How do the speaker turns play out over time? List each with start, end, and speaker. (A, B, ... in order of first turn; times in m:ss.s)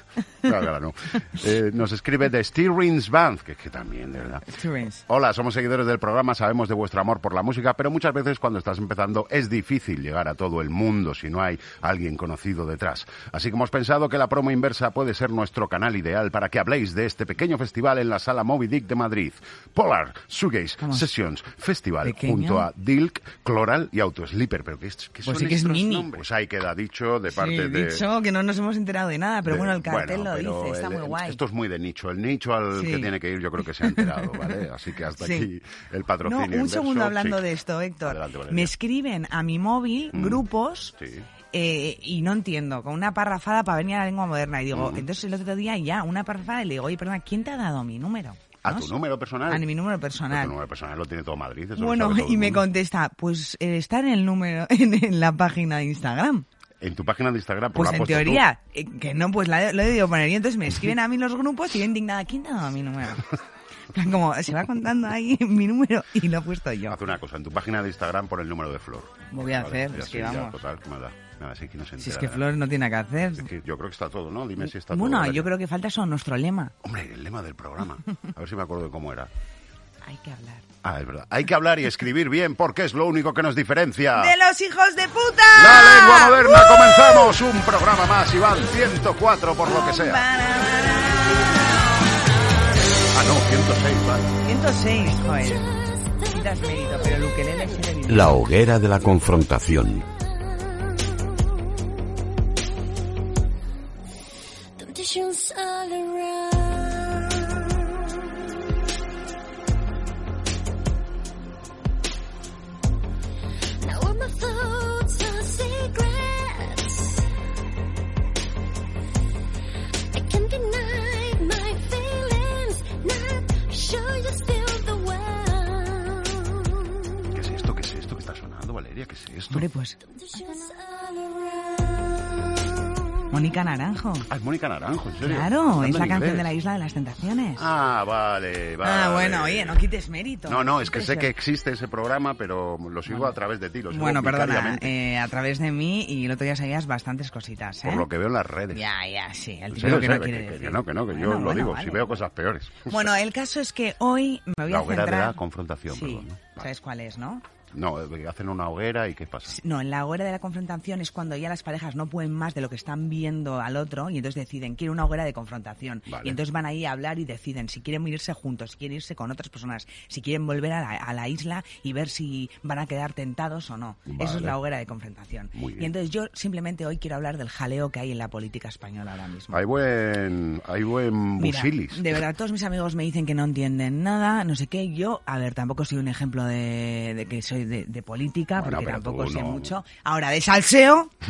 0:00.4-0:28.0 A
0:04.5-0:05.0 B
0:20.8-0:21.1 B
0:22.0-0:22.7 B
0:25.2-0:26.2 B
0:27.3-0:31.4 B
0:29.5-0:37.4 A
0:32.7-0:33.1 B
0:34.0-0:34.5 B
0:35.2-0:35.5 B
0:36.2-0:40.9 B
0:38.0-0:38.7 A
0:40.1-0:40.4 A
0:41.0-0:41.3 A
0:41.5-0:49.0 B
0:44.7-0:45.1 A
0:48.6-0:49.7 A
0:49.5-0:50.6 B
0:50.3-0:52.6 A
0:51.8-0:56.5 B
0:56.8-0:58.4 A
0:57.8-1:03.2 B
1:03.9-1:07.0 B
1:06.9-1:12.4 A
1:09.3-1:10.6 B
1:12.0-1:13.5 B
1:13.3-1:15.5 A
1:14.6-1:16.7 B
1:16.8-1:19.3 A
1:20.0-1:20.6 B
1:20.8-1:24.3 A
1:24.1-1:27.4 B
1:25.6-1:30.2 A
1:29.6-1:32.0 B
1:33.1-1:34.4 A
1:34.4-1:38.4 B
1:35.4-1:36.9 C
1:38.1-1:40.0 D
1:44.8-1:47.5 C
1:53.8-1:57.2 C
2:00.1-2:07.0 C
2:07.3-2:09.7 A
2:09.5-2:10.4 B
2:10.0-2:12.2 C
2:13.3-2:14.3 B
2:14.3-2:16.5 A
2:15.2-2:17.6 B
2:17.6-2:19.8 A
2:18.8-2:21.3 B
2:20.5-2:24.9 A
2:23.1-2:23.4 B
2:23.9-2:28.1 B
2:27.8-2:28.8 A
2:28.7-2:32.2 B
2:29.7-2:33.1 A
2:32.9-2:37.4 B
2:34.7-2:36.7 A
2:37.7-2:39.6 A
2:39.5-2:59.6 B
2:46.1-2:46.4 A
2:54.1-2:54.6 A
2:55.6-2:55.9 A
2:59.5-3:02.2 A
3:01.4-3:11.1 B
3:08.6-3:09.7 A